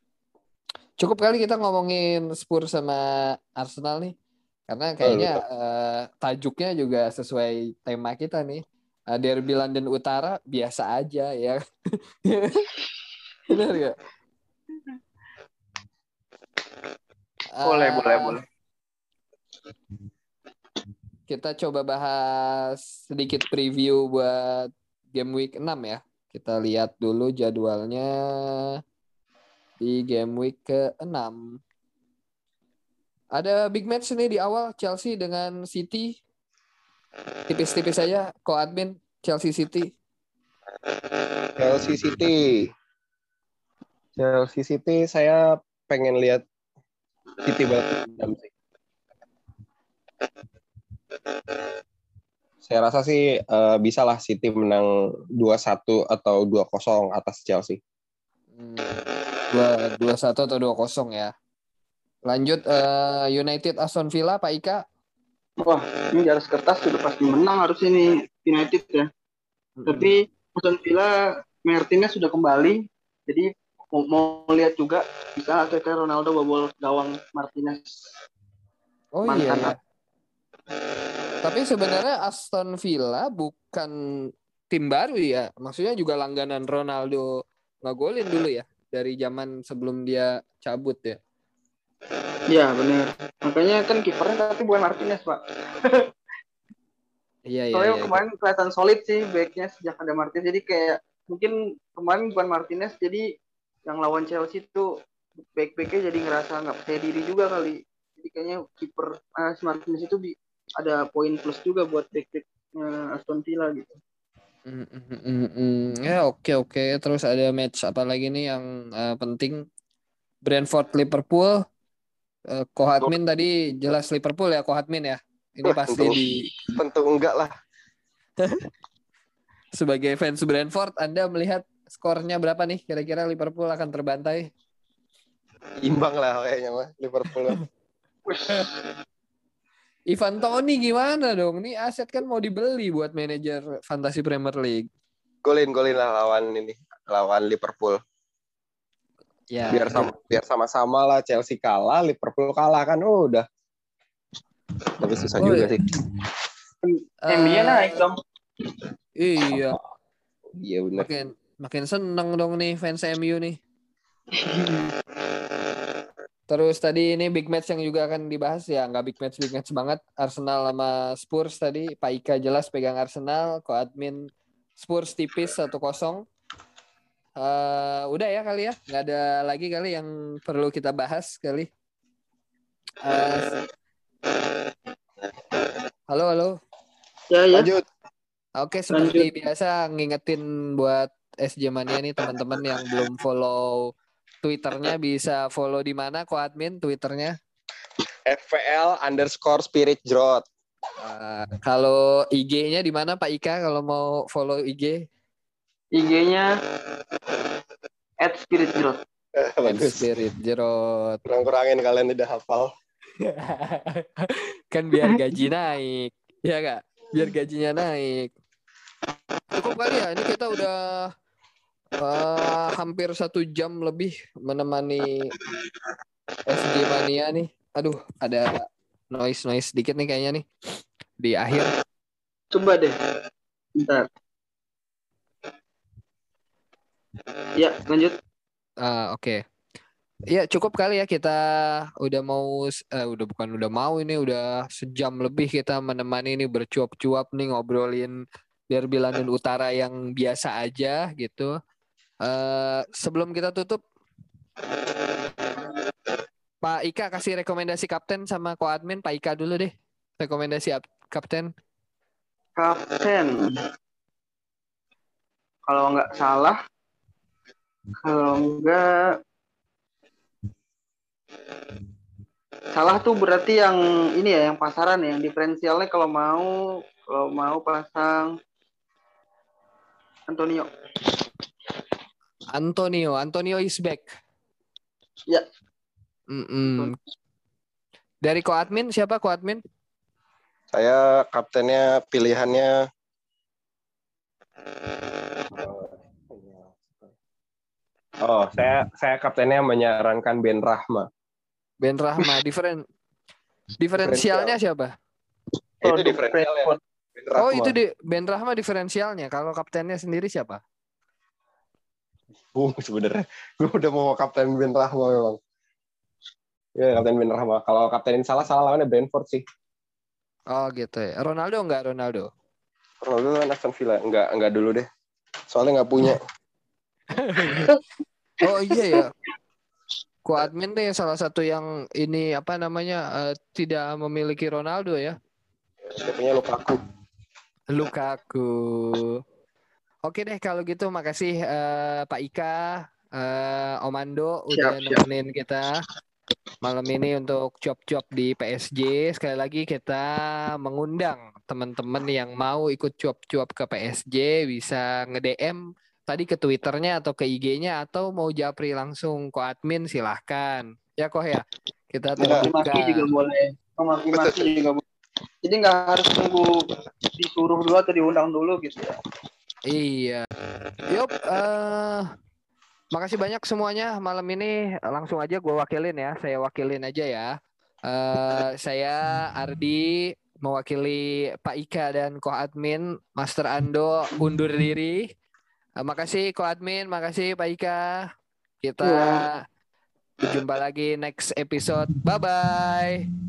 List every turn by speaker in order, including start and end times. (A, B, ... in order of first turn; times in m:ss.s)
0:01.0-0:04.1 A
0:04.7-0:11.6 A
0:05.0-0:05.4 B
0:12.2-0:12.7 A
0:13.5-0:14.0 A
0:17.5-0:18.4 A
0:17.6-0:18.4 C
0:21.3-0:28.8 A
0:29.8-0:31.6 A
0:33.4-0:36.2 A
0:37.5-0:39.9 A
0:41.6-0:42.7 B
0:44.2-0:46.4 B
0:47.4-0:48.5 B
0:52.6-0:57.8 B
0:58.6-1:01.3 A
1:02.2-1:04.8 A
1:05.6-1:09.1 C
1:09.8-1:10.1 A
1:09.9-1:11.1 C
1:11.6-1:18.0 C
1:19.1-1:19.8 A
1:19.3-1:19.7 C
1:21.4-1:23.9 A
1:24.7-1:31.2 A
1:32.5-1:36.1 C
1:37.5-1:38.2 A
1:37.7-1:43.2 C
1:43.9-1:44.9 C
1:45.5-1:54.0 C
1:54.7-1:59.7 A
2:00.4-2:01.6 A
2:02.5-2:06.5 A
2:05.6-2:07.5 B
2:09.8-2:14.5 A
2:15.8-2:17.6 B
2:18.3-2:18.9 C
2:20.1-2:24.9 A
2:25.4-2:28.0 B
2:29.5-2:30.1 A
2:29.7-2:33.5 B
2:35.0-2:35.9 B
2:35.4-2:35.7 A
2:36.9-2:38.2 C
2:37.2-2:38.0 A
2:39.2-2:39.8 A
2:40.6-2:41.1 B
2:41.0-2:43.6 A
2:44.3-2:44.9 C
2:46.5-2:56.2 A
2:57.4-3:01.7 A
3:03.0-3:03.6 A
3:06.1-3:06.5 A
3:07.3-3:07.7 C
3:07.5-3:07.8 B
3:08.6-3:13.9 A
3:08.9-3:09.3 C
3:14.4-3:17.4 A
3:18.3-3:20.5 B
3:21.0-3:25.1 A
3:25.9-3:26.5 C
3:28.2-3:29.0 C
3:29.4-3:30.1 B
3:29.6-3:31.2 A
3:31.3-3:32.7 B
3:33.2-3:38.3 A
3:39.5-3:41.1 A
3:42.0-3:45.3 A
3:46.5-3:50.5 A
3:51.2-3:51.7 A
3:52.5-3:53.0 C
3:53.8-3:54.1 C
3:57.6-3:58.1 C
3:58.8-3:59.4 A
4:00.3-4:08.2 A
4:08.7-4:11.6 A
4:12.2-4:13.8 A
4:16.6-4:21.5 A
4:22.6-4:23.3 C
4:25.7-4:26.6 C
4:28.0-4:28.9 C
4:32.7-4:36.5 C
4:37.1-4:38.4 C
4:40.3-4:41.1 C
4:42.5-4:44.1 A
4:46.3-4:47.0 A
4:48.2-4:49.6 A
4:50.7-4:52.8 B
4:55.4-4:57.1 B
4:58.2-5:01.1 B
5:01.8-5:02.8 A
5:03.8-5:04.9 A
5:04.0-5:04.6 B
5:05.8-5:06.8 C
5:05.8-5:07.8 B
5:07.4-5:10.6 A
5:12.5-5:15.4 B
5:16.8-5:19.4 B
5:20.5-5:22.3 A
5:23.0-5:24.9 B
5:25.5-5:26.2 B
5:27.1-5:27.7 A
5:28.4-5:29.1 A
5:28.7-5:29.0 C
5:30.2-5:35.2 A
5:35.9-5:36.8 B
5:37.7-5:39.2 A
5:40.1-5:45.8 A
5:44.5-5:45.0 C
5:46.6-6:03.1 A
6:02.2-6:02.5 B
6:02.3-6:04.8 C
6:05.4-6:06.6 C
6:07.1-6:09.0 C
6:09.7-6:10.3 A
6:10.9-6:12.1 A
6:12.9-6:17.4 A
6:17.9-6:25.1 A
6:25.8-6:28.1 A
6:28.6-6:29.4 A
6:28.8-6:29.3 C
6:30.2-6:33.1 A